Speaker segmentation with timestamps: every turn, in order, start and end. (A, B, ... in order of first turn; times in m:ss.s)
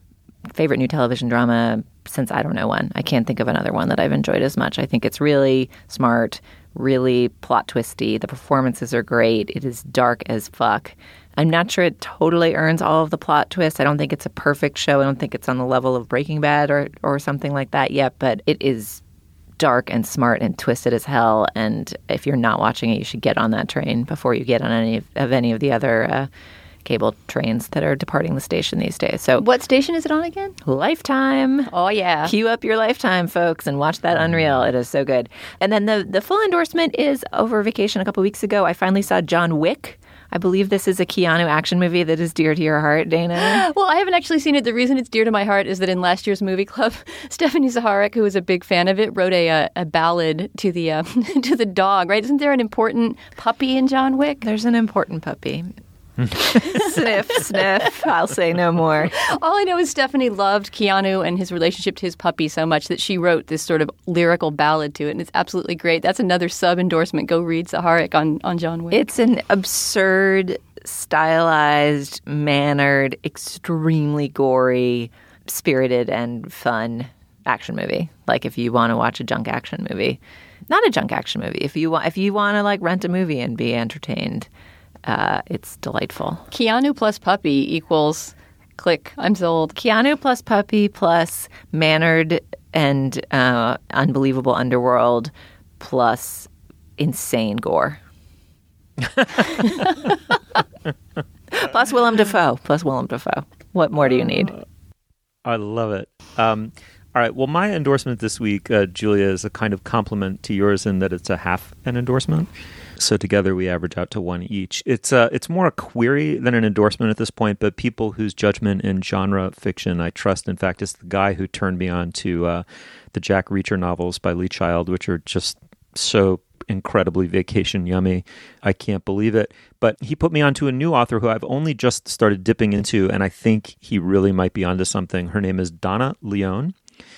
0:00.6-0:19.0 A
0:19.6-0:26.3 A
0:26.8-0:29.4 A
0:29.4-0:30.5 B
0:30.6-0:31.7 A
0:31.7-0:32.3 B
0:32.2-0:43.6 A
0:43.4-0:54.4 B
0:54.4-0:55.7 A
0:56.3-0:59.2 A
0:59.2-1:09.0 B
1:08.9-1:24.5 A
1:25.1-1:26.4 A
1:26.5-1:29.8 B
1:29.8-1:38.0 A
1:39.6-1:40.0 A
1:41.5-1:44.6 A
1:45.4-2:02.6 C
2:03.1-2:16.8 C